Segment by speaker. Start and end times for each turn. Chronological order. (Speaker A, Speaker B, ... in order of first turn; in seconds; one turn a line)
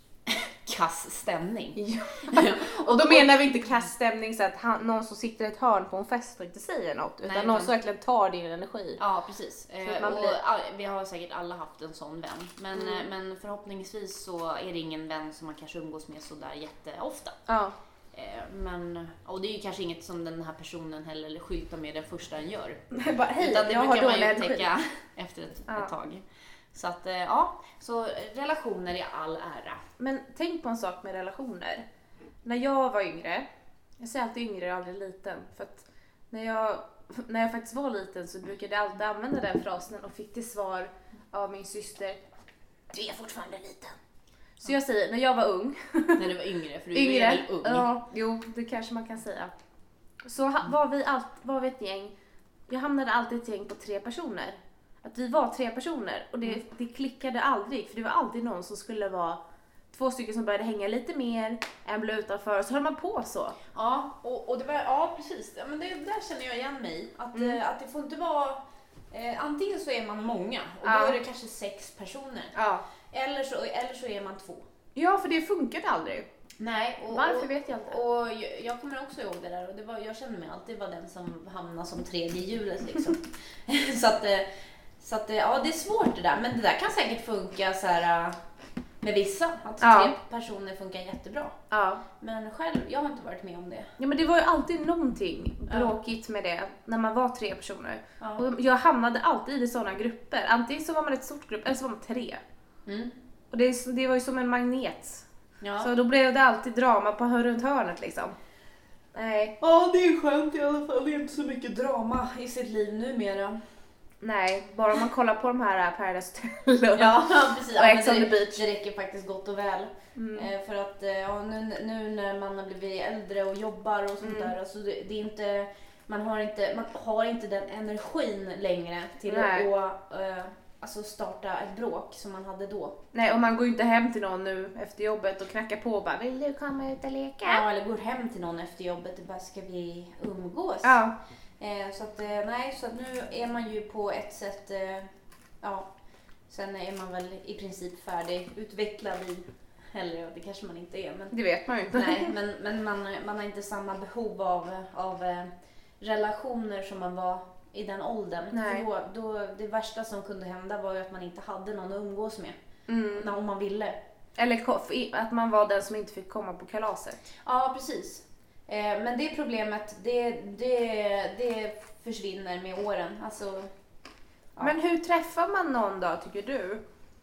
Speaker A: 0.3-3.6
Speaker B: 1.8-9.0
Speaker A: 7.2-7.7
Speaker A: 9.0-17.4
Speaker B: 9.8-10.4
Speaker B: 12.7-13.1
Speaker B: 17.5-17.8
Speaker A: 18.1-22.8
Speaker B: 22.9-24.7
Speaker A: 23.4-29.8
Speaker B: 25.7-25.9
Speaker B: 30.0-31.9
Speaker B: 32.4-33.5
Speaker B: 34.0-42.2
Speaker B: 42.9-44.0
Speaker B: 44.6-46.3
Speaker A: 46.2-47.9
Speaker B: 46.9-49.5
Speaker B: 50.3-52.1
Speaker B: 52.7-59.4
Speaker B: 59.9-63.6
Speaker A: 63.7-68.6
Speaker A: 69.1-72.5
Speaker B: 70.8-71.2
Speaker B: 72.5-72.8
Speaker A: 73.1-74.7
Speaker B: 75.0-76.3
Speaker A: 76.6-84.5
Speaker B: 77.1-78.0
Speaker A: 85.0-88.4
Speaker A: 89.0-91.6
Speaker B: 89.8-90.1
Speaker B: 91.7-92.0
Speaker A: 92.2-93.9
Speaker B: 94.0-102.4
Speaker A: 95.7-96.0
Speaker A: 102.9-103.2
Speaker B: 103.5-105.2
Speaker A: 105.6-105.9
Speaker B: 105.8-108.3
Speaker B: 109.1-109.5
Speaker A: 109.6-113.6
Speaker B: 114.2-118.6
Speaker A: 117.0-133.0
Speaker B: 120.2-120.5
Speaker B: 124.2-124.5
Speaker B: 129.3-129.7
Speaker B: 133.1-137.7
Speaker A: 137.4-141.1
Speaker B: 140.8-141.1
Speaker A: 141.6-145.1
Speaker A: 145.6-145.9
Speaker A: 146.5-151.4
Speaker B: 151.3-152.3
Speaker A: 151.9-162.6
Speaker B: 158.5-158.9
Speaker B: 162.9-163.3
Speaker A: 163.1-164.0
Speaker B: 164.4-167.2
Speaker A: 167.5-173.7
Speaker B: 174.6-176.8